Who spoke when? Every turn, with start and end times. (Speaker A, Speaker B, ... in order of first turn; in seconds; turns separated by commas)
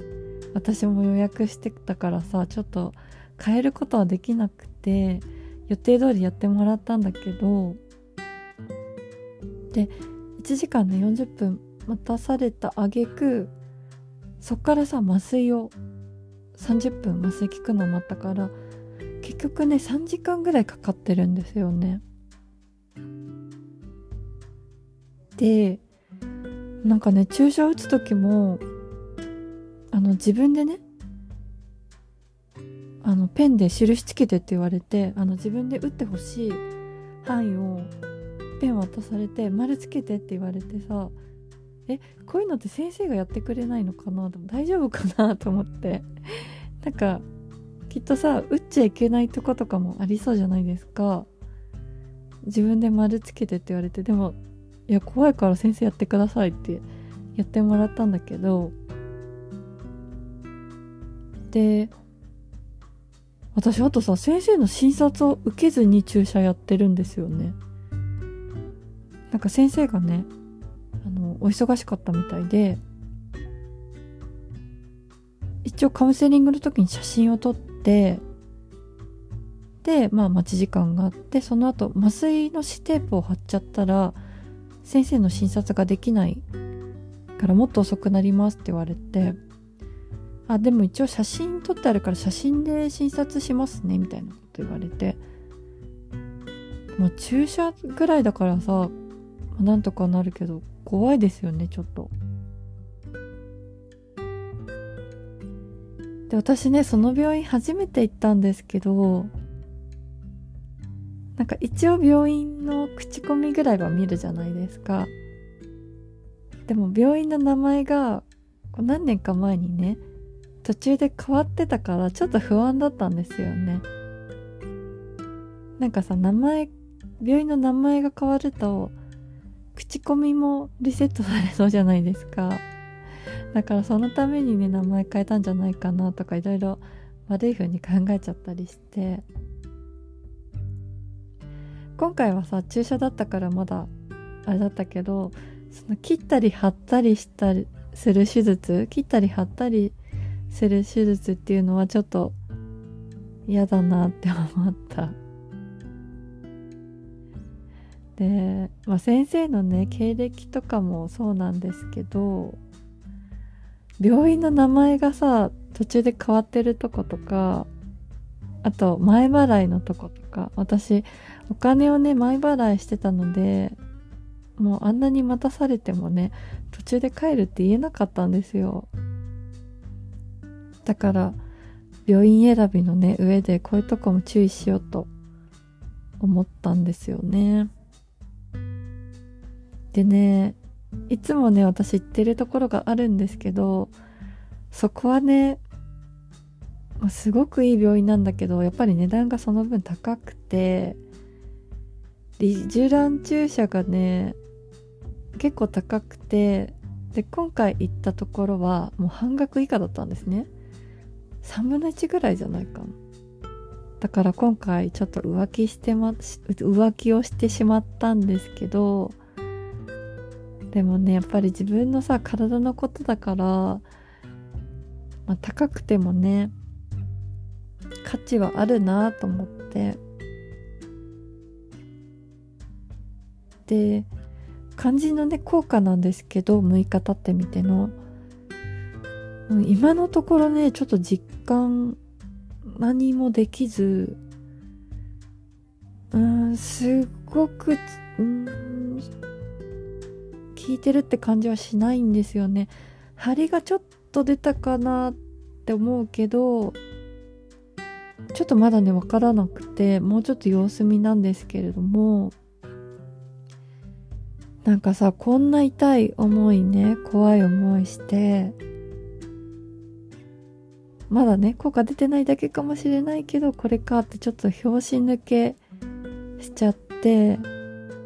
Speaker A: 0.5-7.8, Speaker A: 9.7-13.5, Speaker A: 14.4-15.7, Speaker A: 16.6-18.5, Speaker A: 19.2-22.0, Speaker A: 25.4-25.8, Speaker A: 26.8-28.6, Speaker A: 29.9-30.8, Speaker A: 33.0-36.6, Speaker A: 37.2-37.9, Speaker A: 38.6-41.1, Speaker A: 41.9-47.2, Speaker A: 47.9-51.3, Speaker A: 52.4-54.4, Speaker A: 54.9-58.7, Speaker A: 61.5-61.9, Speaker A: 63.5-67.5, Speaker A: 69.3-70.3, Speaker A: 71.0-72.8, Speaker A: 75.6-78.2, Speaker A: 79.8-84.2, Speaker A: 84.8-86.4, Speaker A: 87.4-89.3, Speaker A: 90.5-95.2, Speaker A: 97.0-98.9, Speaker A: 99.5-102.1, Speaker A: 106.3-109.3, Speaker A: 111.3-115.1, Speaker A: 116.7-120.0, Speaker A: 120.6-123.8, Speaker A: 125.8-128.9, Speaker A: 129.7-132.6, Speaker A: 133.5-139.2, Speaker A: 142.0-143.9, Speaker A: 144.4-149.9, Speaker A: 150.5-152.3, Speaker A: 153.5-155.2, Speaker A: 158.2-162.6, Speaker A: 164.0-167.7, Speaker A: 168.6-173.8, Speaker A: 174.6-178.9, Speaker A: 180.8-181.4, Speaker A: 182.1-185.1, Speaker A: 186.2-187.7, Speaker A: 189.9-190.6, Speaker A: 191.1-193.9, Speaker A: 194.7-195.6, Speaker A: 197.0-201.0, Speaker A: 202.4-204.4, Speaker A: 205.4-210.5, Speaker A: 211.4-213.0, Speaker A: 214.0-219.2, Speaker A: 220.7-223.8, Speaker A: 225.3-226.5, Speaker A: 228.0-230.0, Speaker A: 233.7-234.1, Speaker A: 234.8-237.9, Speaker A: 239.5-242.0, Speaker A: 242.7-244.2, Speaker A: 246.1-249.1, Speaker A: 250.5-256.8, Speaker A: 258.3-262.3, Speaker A: 264.6-268.6, Speaker A: 271.1-275.6, Speaker A: 276.4-277.4